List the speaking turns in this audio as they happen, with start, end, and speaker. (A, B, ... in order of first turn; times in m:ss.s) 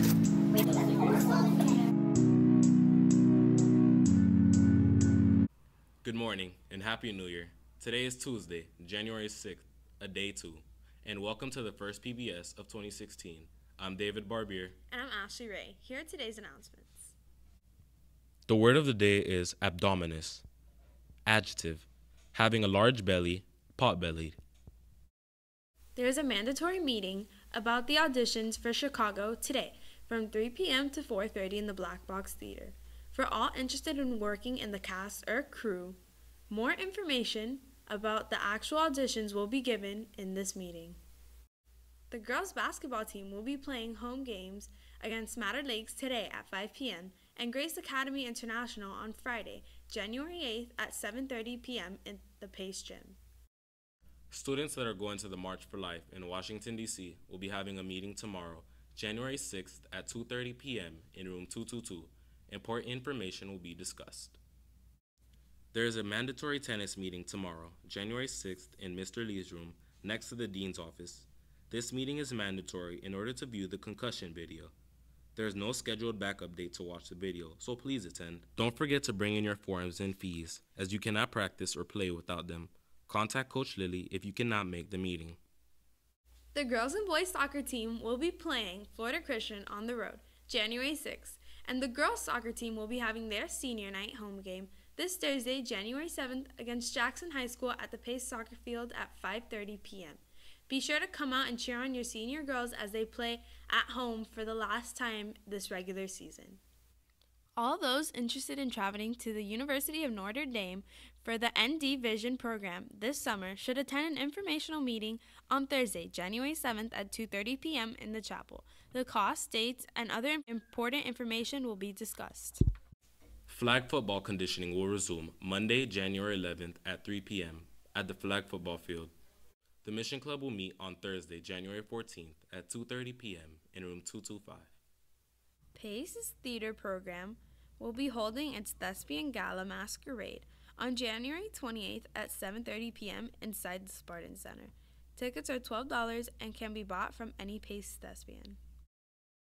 0:06.0-0:14.8 A
0:14.9-0:17.2 B
0:18.5-0:20.5 A
0:21.3-0:24.4 A
0:26.0-0:36.0 B
0:36.5-0:41.0 B
0:42.1-0:53.2 B
0:54.3-1:04.4 A
1:05.7-1:14.7 A
1:15.4-1:25.4 A
1:26.5-1:46.6 B
1:47.6-2:02.6 B
2:03.5-2:09.1 A
2:09.8-2:14.7 A
2:15.8-2:28.6 B